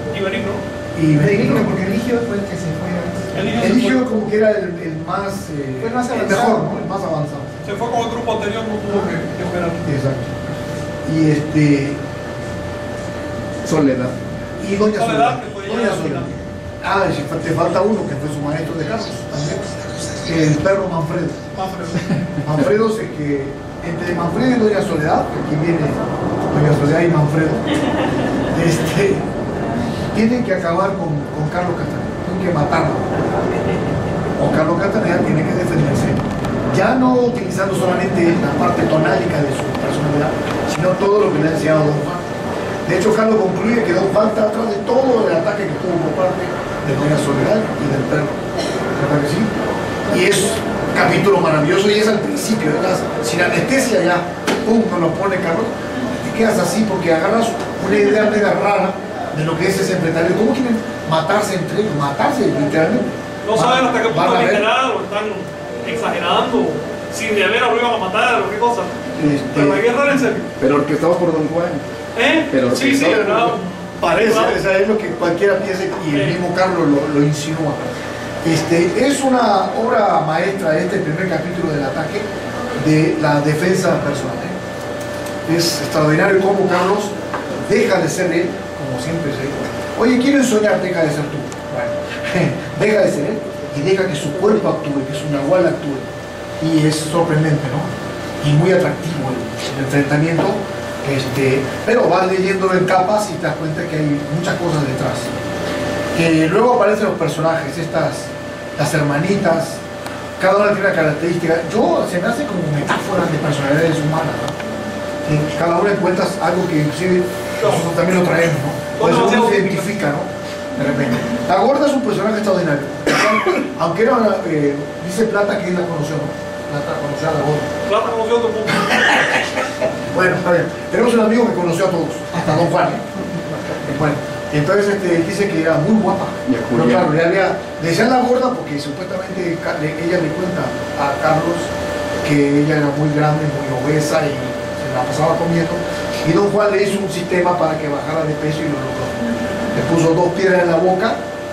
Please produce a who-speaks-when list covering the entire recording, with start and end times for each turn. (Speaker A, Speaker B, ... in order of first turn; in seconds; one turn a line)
Speaker A: 0.1-0.6
Speaker B: 0.9-1.8
Speaker C: 1.1-3.3
Speaker A: 3.3-4.0
Speaker B: 3.6-7.5
Speaker C: 5.8-6.8
Speaker A: 7.6-9.8
Speaker B: 9.8-10.4
Speaker B: 11.0-12.0
Speaker D: 13.7-14.1
Speaker B: 14.6-21.5
Speaker A: 14.9-16.3
Speaker A: 21.5-22.1
Speaker B: 22.4-27.7
Speaker B: 28.5-29.3
Speaker B: 30.1-33.1
Speaker B: 34.4-48.4
Speaker B: 48.9-64.7
Speaker A: 63.4-69.0
Speaker B: 69.2-69.8
Speaker A: 69.5-70.5
Speaker D: 70.6-71.8
Speaker A: 72.1-74.6
Speaker D: 72.5-73.5
Speaker B: 73.0-73.5
Speaker B: 74.0-84.6
Speaker A: 76.1-76.4
Speaker B: 85.5-105.3
Speaker B: 106.1-109.8
Speaker B: 110.4-114.6
Speaker B: 115.2-127.7
Speaker A: 118.9-119.9
Speaker A: 127.8-129.4
Speaker B: 130.1-141.7
Speaker D: 136.4-137.1
Speaker B: 142.2-151.2